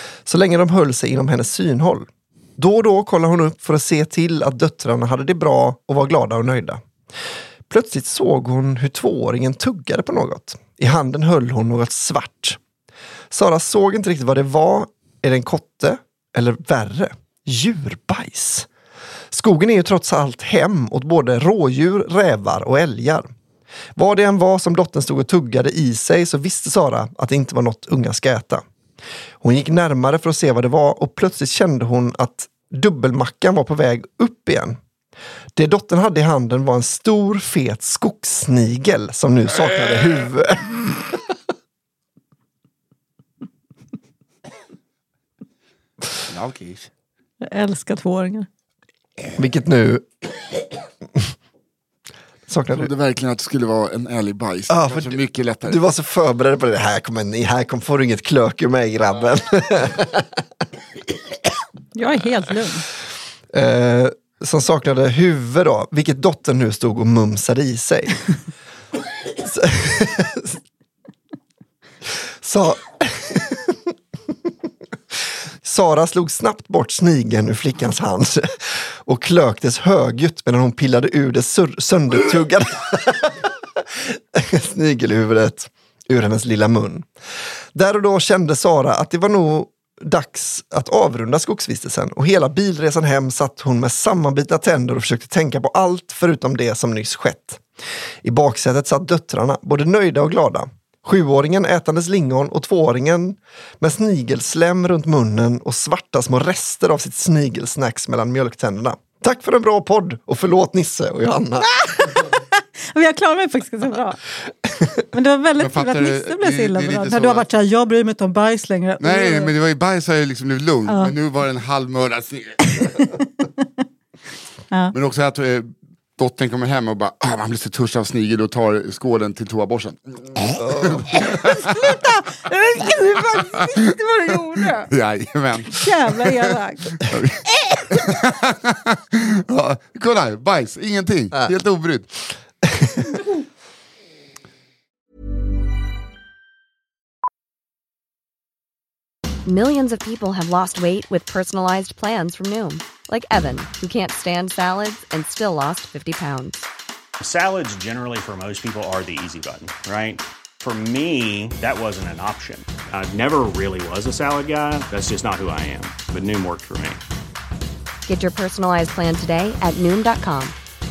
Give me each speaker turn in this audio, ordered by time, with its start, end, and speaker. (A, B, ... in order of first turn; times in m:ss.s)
0:00.3-0:06.8 A
0:07.7-0:12.6 A
0:13.3-0:18.7 A
0:19.3-0:23.3 A
0:24.0-0:28.6 A
0:29.4-0:34.8 A
0:35.6-0:41.2 A
0:46.3-0:46.9 B
0:47.4-0:48.5 C
0:49.4-0:50.1 A
0:52.5-0:52.9 A
0:52.7-0:55.8 B
0:54.7-1:00.4 A
1:02.0-1:02.9 C
1:03.5-1:08.2 A
1:09.4-1:10.6 A
1:12.4-1:13.8 A
1:15.6-1:27.1 A
1:27.7-1:37.6 A
1:38.2-1:51.7 A
1:51.7-1:54.2 C
1:55.1-1:59.5 C
1:55.6-1:57.5 B
1:59.0-2:02.9 B
2:00.9-2:01.1 C
2:04.9-2:11.8 B
2:10.6-2:11.2 A
2:11.4-2:14.9 C
2:14.9-2:16.4 B
2:15.7-2:17.0 C
2:17.1-2:22.1 B
2:22.7-2:23.0 A
2:29.4-2:36.7 D
2:37.2-2:47.0 E
2:48.1-2:50.6 D